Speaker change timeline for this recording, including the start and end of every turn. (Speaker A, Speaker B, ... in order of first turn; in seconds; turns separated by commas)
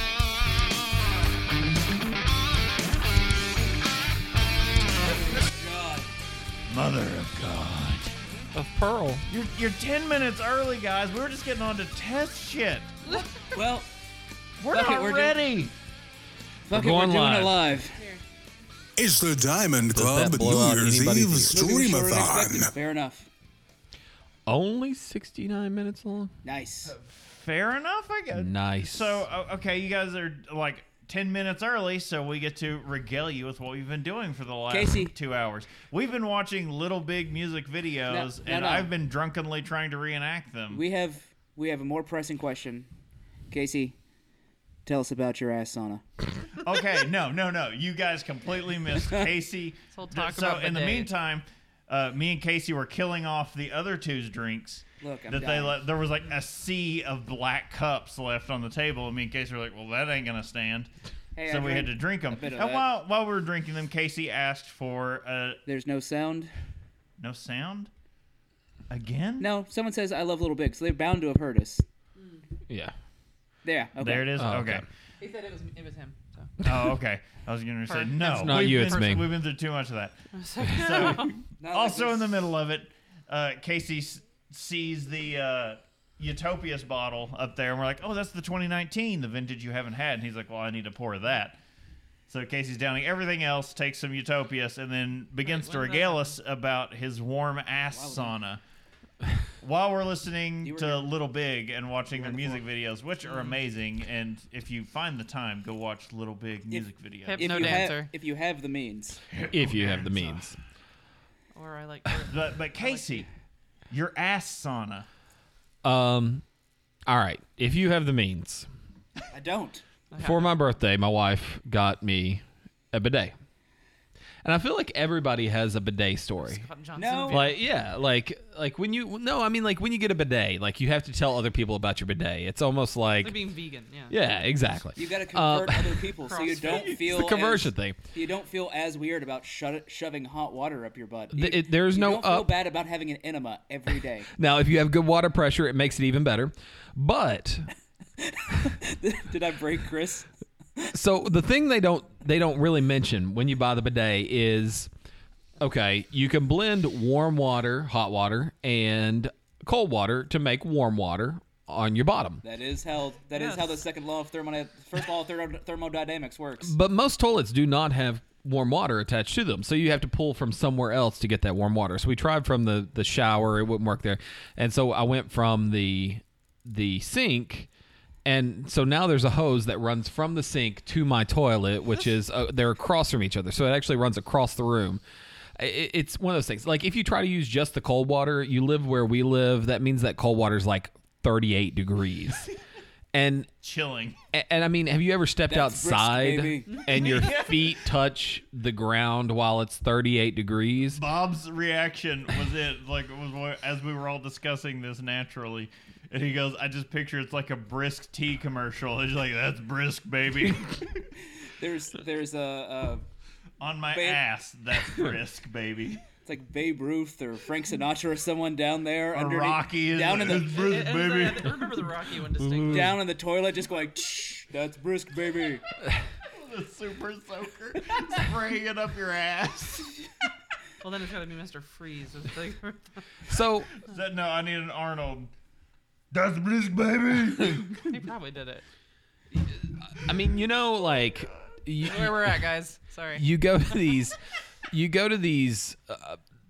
Speaker A: 5.0-6.1, Speaker B: 6.7-8.1, Speaker C: 8.5-9.2, Speaker B: 9.3-12.9, Speaker A: 13.5-13.9, Speaker B: 14.6-15.7, Speaker A: 14.7-15.3, Speaker A: 16.7-18.2, Speaker C: 16.7-17.6, Speaker D: 19.0-22.7, Speaker C: 19.9-21.7, Speaker A: 21.5-23.3, Speaker C: 24.4-26.3, Speaker A: 26.4-26.9, Speaker B: 26.8-40.8, Speaker C: 28.3-29.2, Speaker A: 34.7-35.1, Speaker A: 38.1-38.9, Speaker A: 40.7-42.9, Speaker A: 43.5-44.0, Speaker A: 44.9-46.0, Speaker B: 46.6-60.9, Speaker E: 49.9-51.1, Speaker A: 55.0-55.8, Speaker A: 61.3-62.9, Speaker B: 61.4-65.6, Speaker A: 65.7-66.5, Speaker B: 67.2-67.9, Speaker B: 68.9-69.5, Speaker A: 69.4-71.8, Speaker A: 73.6-74.3, Speaker B: 74.0-74.8, Speaker C: 74.3-74.8, Speaker E: 75.2-76.5, Speaker B: 76.6-91.6, Speaker E: 77.9-79.2, Speaker C: 78.2-79.3, Speaker E: 80.3-81.4, Speaker A: 81.6-82.4, Speaker B: 92.3-98.6, Speaker E: 95.4-96.3, Speaker A: 97.9-98.3, Speaker B: 99.6-107.9, Speaker A: 100.6-101.1, Speaker A: 102.1-102.6, Speaker E: 103.2-103.6, Speaker A: 106.7-109.2, Speaker E: 107.3-108.1, Speaker B: 109.3-110.4, Speaker C: 109.5-110.6, Speaker E: 111.5-113.3, Speaker B: 112.3-113.3, Speaker B: 113.9-115.1, Speaker C: 115.8-116.4, Speaker C: 117.1-118.7, Speaker A: 119.3-119.8, Speaker E: 120.1-120.5, Speaker C: 120.2-122.4, Speaker C: 122.9-123.3, Speaker C: 124.4-126.6, Speaker E: 126.4-127.6, Speaker A: 127.0-127.5, Speaker C: 127.3-133.3, Speaker E: 133.2-134.1, Speaker C: 134.1-136.1, Speaker A: 134.9-144.3, Speaker E: 136.2-137.0, Speaker C: 136.6-138.0, Speaker C: 141.3-142.5, Speaker C: 144.3-147.7, Speaker A: 148.2-150.3, Speaker C: 150.9-154.9, Speaker C: 155.6-162.4, Speaker A: 162.4-166.7, Speaker E: 163.3-163.8, Speaker C: 166.6-177.7, Speaker C: 178.2-185.0, Speaker C: 185.6-192.5, Speaker C: 193.1-193.5, Speaker B: 193.6-194.2, Speaker C: 194.3-201.0, Speaker A: 195.5-197.3, Speaker B: 197.0-197.7, Speaker B: 200.9-211.1, Speaker A: 211.4-213.0, Speaker B: 213.6-216.0, Speaker A: 213.9-214.2, Speaker A: 216.2-220.6, Speaker B: 219.1-221.8, Speaker E: 220.3-223.0, Speaker C: 222.3-223.0, Speaker A: 222.7-225.6, Speaker B: 226.3-230.0, Speaker E: 230.8-233.0, Speaker C: 233.3-233.7, Speaker B: 233.8-235.3, Speaker B: 236.1-237.8, Speaker E: 237.8-238.6, Speaker C: 239.3-242.4, Speaker E: 241.8-243.2, Speaker C: 243.1-244.2, Speaker C: 244.7-246.2